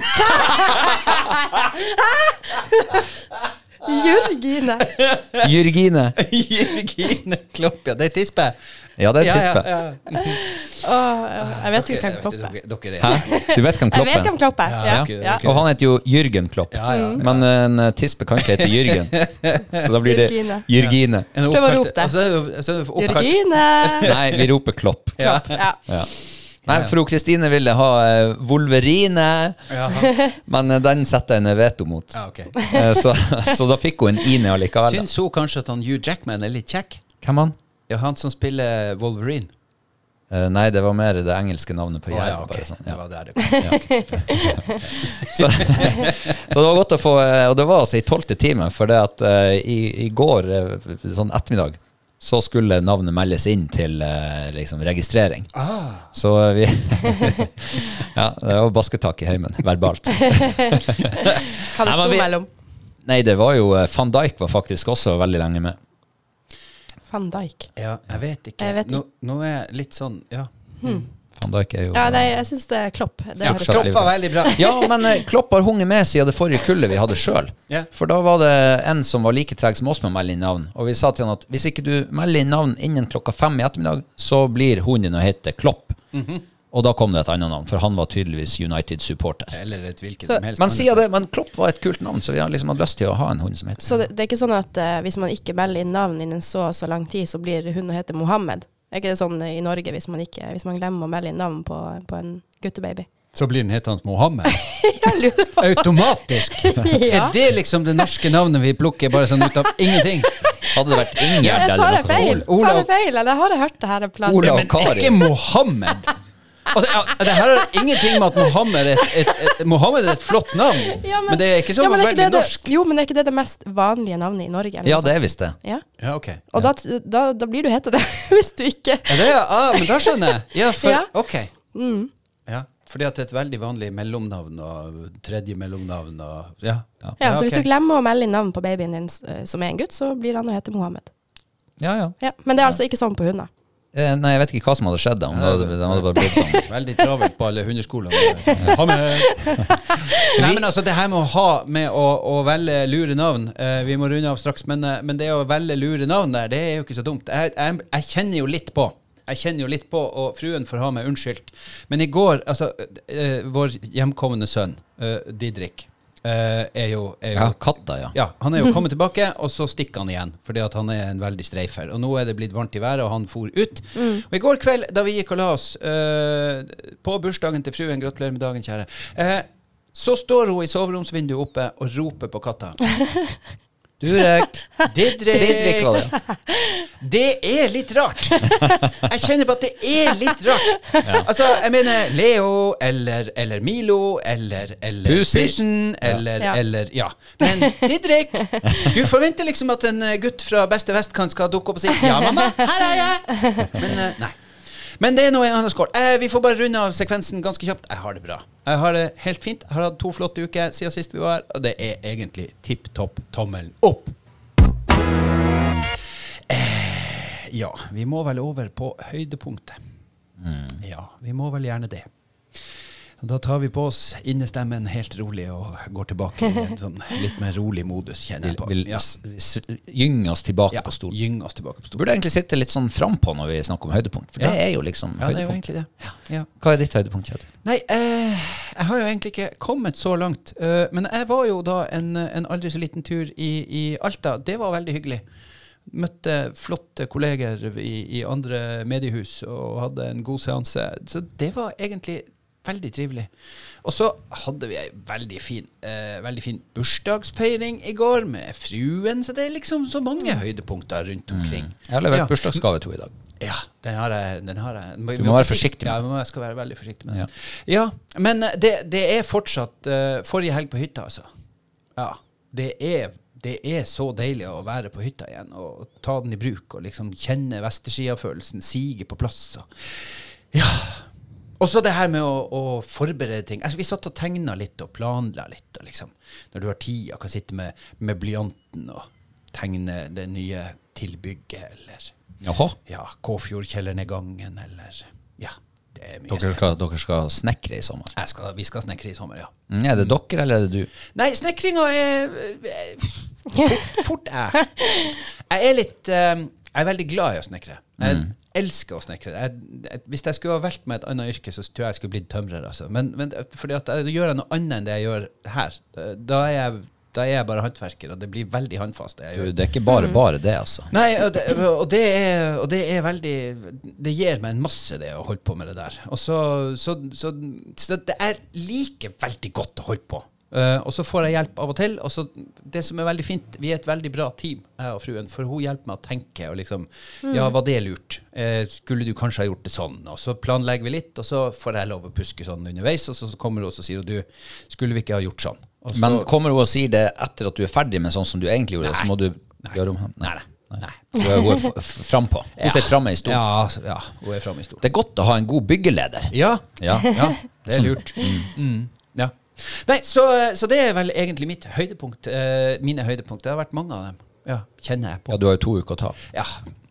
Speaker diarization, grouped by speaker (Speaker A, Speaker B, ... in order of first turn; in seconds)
Speaker A: 0.1-2.9, 3.9-4.3, 4.8-5.5, 6.2-8.6, 9.2-10.4, 11.4-13.4, 14.7-15.7, 16.7-17.5, 18.4-19.9, 20.7-24.5, 25.2-25.6, 26.7-26.9, 29.7-30.1, 32.1-32.5, 34.8-37.0, 37.9-39.5, 42.1-44.0, 45.0-46.4, 55.5-56.1, 67.8-71.0, 73.4-74.7, 86.1-86.4, 89.5-91.1, 103.3-110.4, 111.4-112.9, 114.4-116.1, 116.7-122.7, 126.0-126.4, 129.1-131.5, 132.5-137.7, 145.3-182.8, 184.8-186.1, 187.0-204.4, 205.0-214.2, 216.5-219.8, 220.8-222.1, 223.2-229.1, 230.7-232.1, 235.2-236.5, 237.6-245.2, 245.9-253.3, 253.8-262.6, 263.4-271.3, 272.0-281.1, 281.6-292.1, 292.9-296.8, 298.2-299.5, 301.1-319.5, 320.9-346.3, 348.8-349.1, 349.6-351.2, 352.6-354.8, 356.3-365.4, 366.3-366.6
Speaker B: 0.3-1.2, 2.6-3.0, 3.8-4.9, 10.1-12.5, 13.0-15.4, 16.9-17.2, 20.0-20.7, 21.5-22.1, 23.0-24.1, 25.2-25.8, 30.0-30.4, 32.6-32.8, 43.4-45.3, 60.1-62.5, 67.1-67.7, 68.6-69.0, 71.9-75.2, 93.8-103.1, 104.5-107.4, 109.3-114.7, 117.6-119.4, 120.3-125.8, 126.5-131.1, 131.7-132.1, 137.2-141.1, 142.2-143.5, 148.2-150.4, 174.0-174.2, 182.9-183.4, 184.1-184.9, 186.1-186.9, 188.4-188.8, 190.3-191.2, 197.4-198.9, 202.0-204.0, 304.8-305.1, 337.3-337.6
Speaker C: 5.4-6.2, 9.0-9.7, 13.0-21.3, 24.0-25.2, 25.9-26.1, 26.6-29.7, 30.4-35.1, 37.2-37.6, 40.3-43.0, 43.6-55.5, 56.1-62.3, 63.0-65.8, 71.3-72.4, 73.4-86.0, 86.7-89.6, 90.6-94.0, 110.7-112.4, 114.2-115.2, 124.8-125.6, 141.8-142.2, 143.9-146.7, 150.4-150.7, 167.3-168.2, 184.0-184.5, 185.3-186.1, 191.0-191.3, 195.1-196.2, 220.4-220.8, 228.4-231.2, 231.9-235.6, 236.6-237.5, 261.3-263.1, 265.2-266.0, 292.4-292.8, 296.3-298.1, 299.7-300.9, 308.0-308.3, 319.4-320.9, 345.9-353.4, 354.8-358.5, 365.3-366.2